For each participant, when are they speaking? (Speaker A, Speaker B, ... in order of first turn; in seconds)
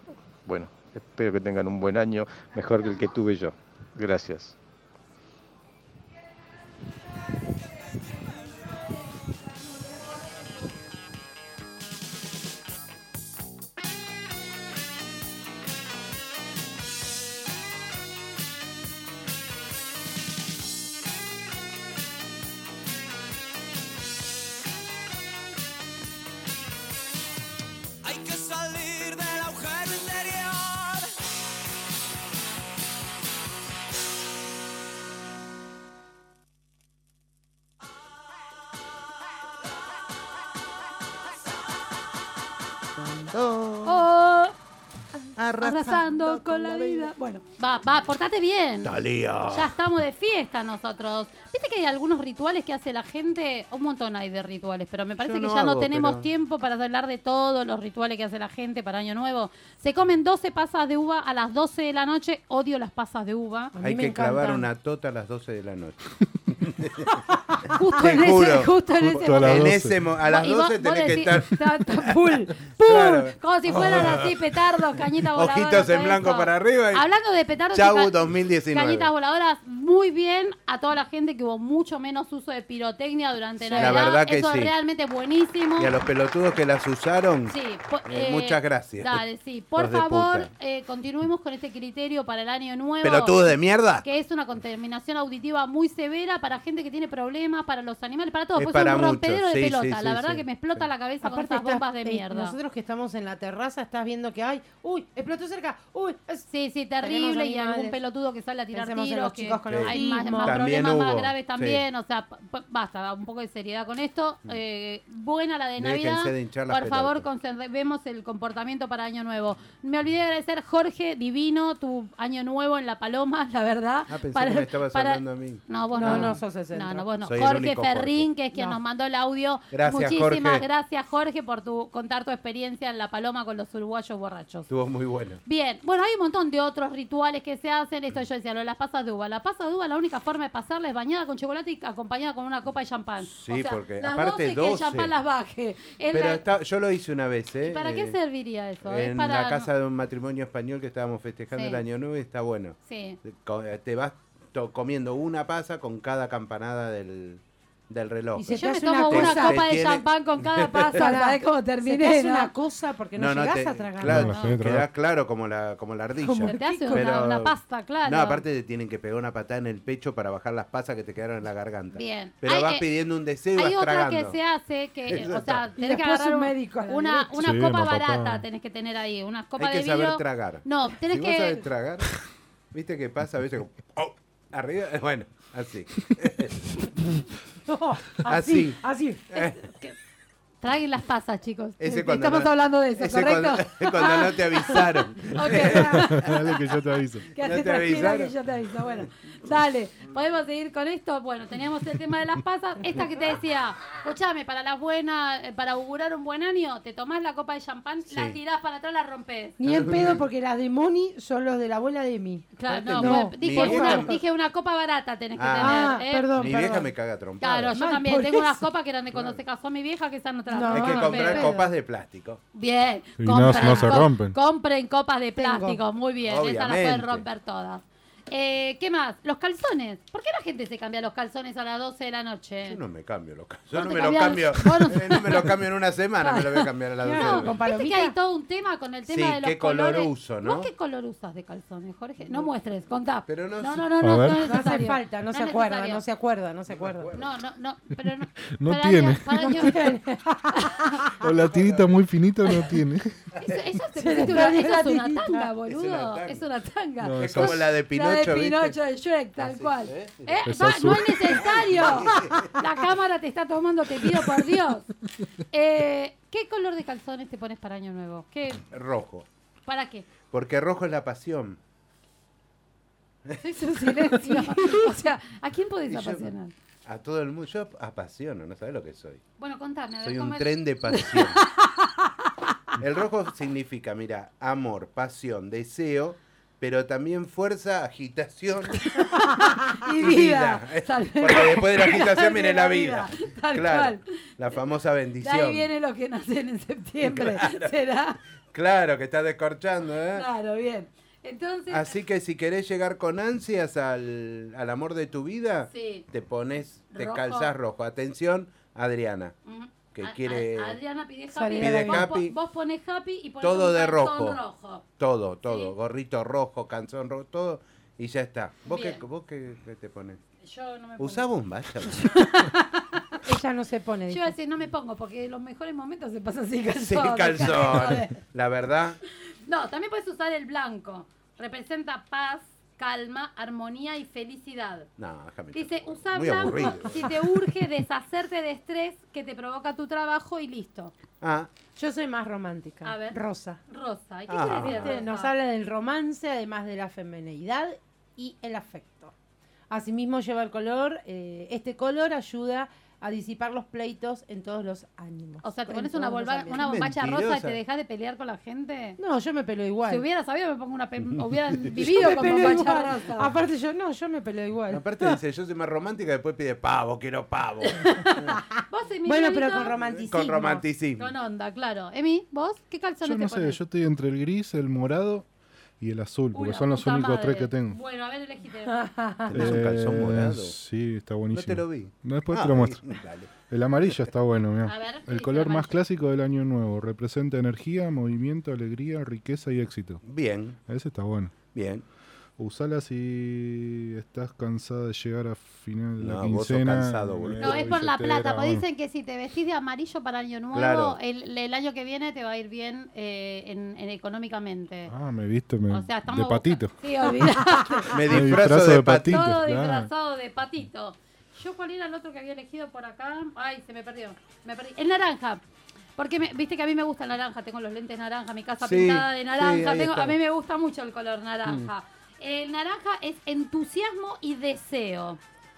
Speaker A: 0.4-4.5
Speaker B: 28.0-31.1
Speaker C: 43.0-44.1, 45.3-47.1, 48.8-49.7, 55.2-56.3, 63.8-67.2, 67.9-72.1, 72.6-74.7, 75.2-77.0, 77.7-79.1, 83.8-84.7, 85.8-90.5, 93.0-94.0, 98.5-100.5, 109.7-111.8, 115.8-117.3, 124.1-126.4, 127.2-128.3, 129.7-130.6, 134.7-135.4, 143.2-145.1, 146.1-148.2, 148.8-161.1, 163.2-174.4, 175.1-175.7, 179.6-182.1, 182.7-186.6, 188.2-189.6, 191.8-196.3, 197.4-198.3, 208.1-208.4, 209.6-210.2, 212.7-214.2, 215.4-217.8, 219.1-219.4, 220.7-222.4, 223.4-223.9, 226.2-227.2, 232.6-237.6, 239.1-240.7, 243.3-243.9, 246.7-247.3, 251.4-251.9, 255.6-256.4, 257.2-258.8, 259.4-260.4, 261.3-262.6, 268.7-269.3, 270.3-271.6, 275.9-276.3, 276.8-279.2, 280.0-281.4, 282.8-289.0, 289.9-295.7, 297.0-297.7, 298.5-300.3, 301.7-309.4, 309.9-310.8, 311.6-312.4, 313.4-314.4, 315.0-320.2, 321.0-322.2, 326.7-329.0, 335.0-337.1, 341.2-341.5, 344.3-345.0, 356.5-357.6, 361.1-362.3, 364.7-368.3, 369.9-371.1, 379.3-380.6, 381.3-383.3, 390.1-390.6, 391.5-391.8, 396.0-397.8, 400.5-401.0, 407.9-409.3, 418.6-420.2, 421.4-421.7
Speaker D: 43.8-44.5, 45.6-63.7, 67.7-69.7, 70.2-78.2, 78.7-85.9, 87.5-102.5, 106.5-134.7, 135.4-146.4, 147.6-149.7, 151.5-151.8, 152.8-153.2, 158.5-162.5, 164.2-164.6, 166.4-168.4, 171.9-172.9, 173.6-181.6, 189.3-189.9, 190.6-196.6, 197.3-209.6, 212.6-216.3, 217.4-221.6, 222.5-232.8, 233.7-235.6, 236.2-246.0, 247.1-249.9, 250.6-250.9, 253.4-264.9, 265.5-268.6, 269.6-270.1, 273.4-276.5, 279.4-281.8, 288.7-294.1, 295.2-298.2, 300.1-301.9, 305.7-306.1, 306.9-307.5, 309.4-314.8, 315.4-315.7, 318.7-319.0, 320.4-321.3, 321.9-323.2, 324.1-328.2, 329.4-334.9, 335.5-340.9, 342.8-345.3, 355.4-359.0, 359.9-363.3, 367.6-369.8, 371.0-373.6, 376.3-378.8, 384.6-385.8, 397.4-404.9, 405.7-408.0, 409.1-415.4, 416.0-425.2
Speaker E: 63.7-64.7, 83.6-84.0, 101.2-106.5, 107.0-108.0, 108.7-110.6, 125.9-127.1, 128.5-128.8, 158.4-159.8, 160.9-164.3, 166.2-167.1, 175.8-177.4, 187.7-189.3, 209.6-214.2, 215.6-216.9, 217.7-218.6, 220.5-221.7, 225.4-225.8, 237.0-238.1, 244.4-247.1, 249.4-251.1, 254.0-255.5, 274.1-274.8, 311.3-312.1, 323.2-324.3, 341.8-343.6, 344.6-349.1, 349.7-356.6, 359.0-360.0, 361.7-365.1, 369.1-370.6, 378.7-379.4
Speaker F: 69.0-70.0, 164.0-164.9, 177.4-178.4, 195.8-197.3, 223.2-224.4, 244.0-244.4, 248.6-249.7, 251.2-253.3, 257.0-257.7, 260.4-261.6, 373.0-375.3, 375.8-377.8, 379.3-382.9, 383.4-390.0, 390.7-391.4, 392.4-398.6, 404.9-409.9